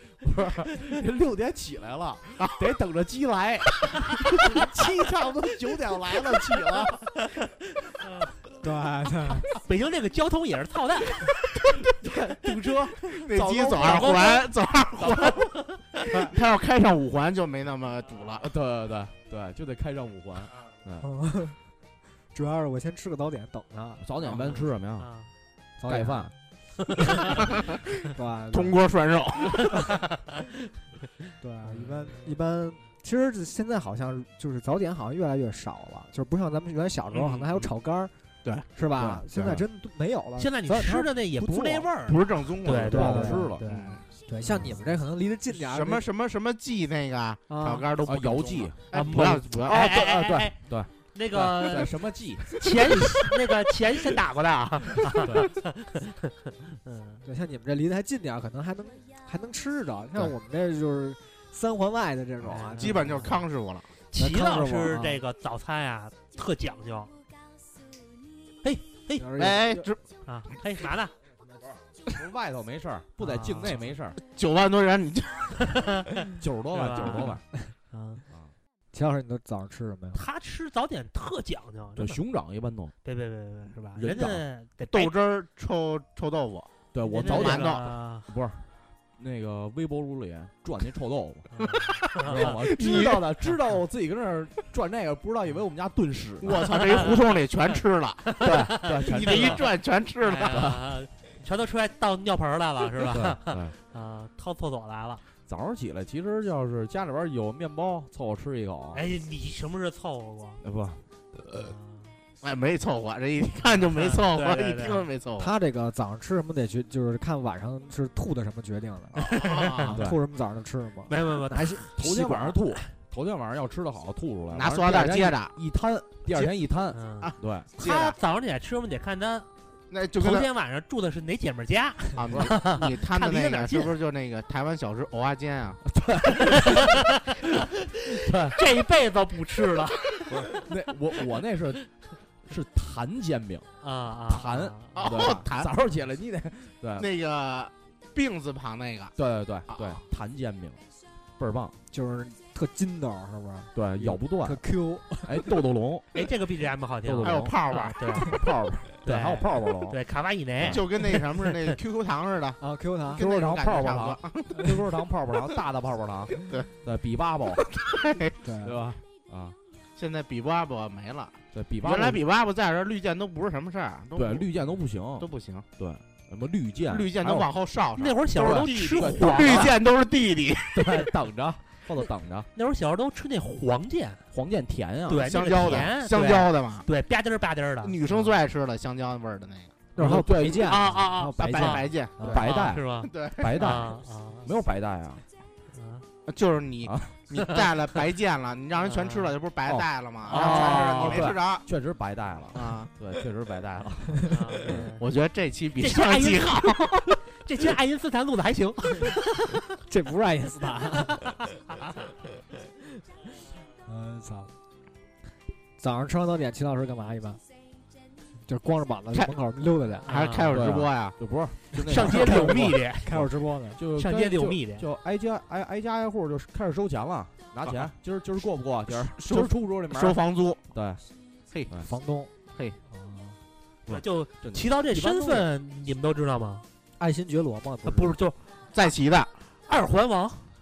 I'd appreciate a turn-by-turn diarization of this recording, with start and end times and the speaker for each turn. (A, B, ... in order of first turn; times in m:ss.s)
0:00.2-0:07.0 A
0:02.4-0:02.6 B
0:08.0-0:08.3 C
0:08.6-0:09.5 D
0:09.5-0:11.6 C
0:11.8-0:14.5 A
0:12.5-0:12.9 C
0:13.1-0:18.5 B
0:13.8-0:14.4 C
0:15.0-0:15.6 A
0:18.4-0:21.1 A
0:21.0-0:21.6 D
0:22.3-0:24.1 D
0:24.0-0:25.1 A
0:24.4-0:25.3 C
0:25.8-0:26.3 D
0:25.8-0:26.3 A
0:28.1-0:28.8 D
0:28.5-0:29.9 B
0:31.4-0:38.1 D
0:31.7-0:32.4 C
0:37.2-0:37.4 B
0:38.7-0:41.9 D
0:39.0-0:39.6 A
0:40.4-0:44.0 C
0:42.0-0:44.0 B
0:42.8-0:43.7 A
0:42.9-0:43.5 D
0:44.3-0:46.0 D
0:45.5-0:49.9 B
0:47.5-0:47.9 D
0:48.0-0:53.2 A
0:48.9-0:51.9 C
0:52.5-0:57.2 C
0:55.2-0:55.5 A
0:57.2-1:03.3 D
1:02.5-1:03.4 C
1:02.7-1:03.9 B
1:04.1-1:07.1 C
1:04.2-1:05.2 D
1:08.6-1:09.3 C
1:09.2-1:09.9 D
1:09.4-1:10.0 B
1:10.3-1:11.1 C
1:12.1-1:14.2 A
1:13.2-1:13.8 C
1:14.3-1:16.0 B
1:15.7-1:18.2 C
1:16.4-1:17.4 A
1:18.9-1:20.2 D
1:20.1-1:22.2 C
1:22.0-1:22.9 A
1:23.0-1:25.2 C
1:24.0-1:24.4 A
1:24.9-1:26.7 B
1:26.9-1:28.6 A
1:27.1-1:28.3 C
1:27.2-1:27.9 B
1:29.2-1:31.5 A
1:31.5-1:32.7 C
1:31.8-1:33.3 B
1:32.2-1:37.1 A
1:36.4-1:40.8 B
1:36.5-1:37.4 C
1:38.4-1:45.2 C
1:38.4-1:39.7 A
1:40.5-1:40.9 A
1:43.0-1:43.8 A
1:45.5-1:49.0 A
1:48.9-1:50.6 C
1:50.6-1:51.0 A
1:51.5-1:52.1 C
1:52.4-1:55.5 B
1:53.8-1:55.1 C
1:55.4-1:59.3 D
1:59.2-2:00.0 B
1:59.2-1:59.9 C
1:59.8-2:02.6 D
1:59.9-2:00.2 A
2:01.1-2:01.9 C
2:02.0-2:07.7 A
2:04.5-2:05.6 B
2:06.9-2:09.5 C
2:07.2-2:08.2 B
2:09.9-2:10.5 B
2:10.2-2:14.0 C
2:12.2-2:15.8 B
2:15.9-2:16.9 A
2:16.4-2:20.7 C
2:18.1-2:18.6 A
2:20.3-2:21.8 A
2:22.4-2:23.7 A
2:23.8-2:25.3 C
2:24.3-2:27.1 A
2:25.0-2:25.7 B
2:27.0-2:29.1 B
2:29.2-2:30.8 A
2:29.7-2:30.0 B
2:31.4-2:31.8 A
2:31.9-2:35.5 D
2:33.8-2:34.6 A
2:35.2-2:36.2 A
2:36.1-2:38.4 C
2:37.0-2:37.5 A
2:37.2-2:38.0 B
2:38.2-2:40.0 A
2:39.0-2:41.8 C
2:40.6-2:40.8 A
2:40.6-2:42.6 B
2:42.6-2:43.2 D
2:43.1-2:44.7 B
2:43.2-2:47.7 A
2:47.7-2:48.4 B
2:48.4-2:48.8 D
2:48.6-2:49.6 A
2:50.0-2:54.5 B
2:51.5-2:52.2 A
2:54.2-2:57.5 A
2:55.2-2:55.7 B
2:56.9-3:01.1 B
2:58.0-2:59.8 C
2:58.4-2:59.8 A
3:00.7-3:02.5 A
3:02.6-3:04.2 C
3:04.3-3:05.9 A
3:05.1-3:08.4 C
3:05.2-3:06.9 B
3:07.8-3:09.9 B
3:10.0-3:12.4 D
3:10.0-3:10.9 A
3:10.6-3:14.5 C
3:10.7-3:13.7 B
3:12.2-3:15.2 A
3:15.7-3:16.0 C
3:16.3-3:21.6 B
3:16.8-3:17.2 A
3:17.4-3:17.7 C
3:18.8-3:19.4 C
3:19.6-3:24.9 A
3:20.3-3:21.4 C
3:22.5-3:22.9 B
3:24.3-3:25.1 C
3:24.7-3:27.2 B
3:25.8-3:29.6 C
3:29.9-3:31.2 D
3:33.9-3:34.5 D
3:35.8-3:37.4 D
3:38.5-3:40.1 D
3:40.1-3:40.6 C
3:40.1-3:41.2 B
3:40.5-3:50.2 A
3:41.8-3:42.6 B
3:41.8-3:43.1 C
3:42.3-3:43.8 D
3:44.0-3:44.8 C
3:48.9-3:50.6 B
3:50.7-3:51.0 A
3:51.8-3:52.3 D
3:52.9-3:53.4 D
3:53.9-3:55.5 A
3:53.9-3:56.7 C
3:57.0-3:58.2 D
3:57.8-3:58.4 C
3:58.7-3:59.3 B
3:59.7-4:00.5 C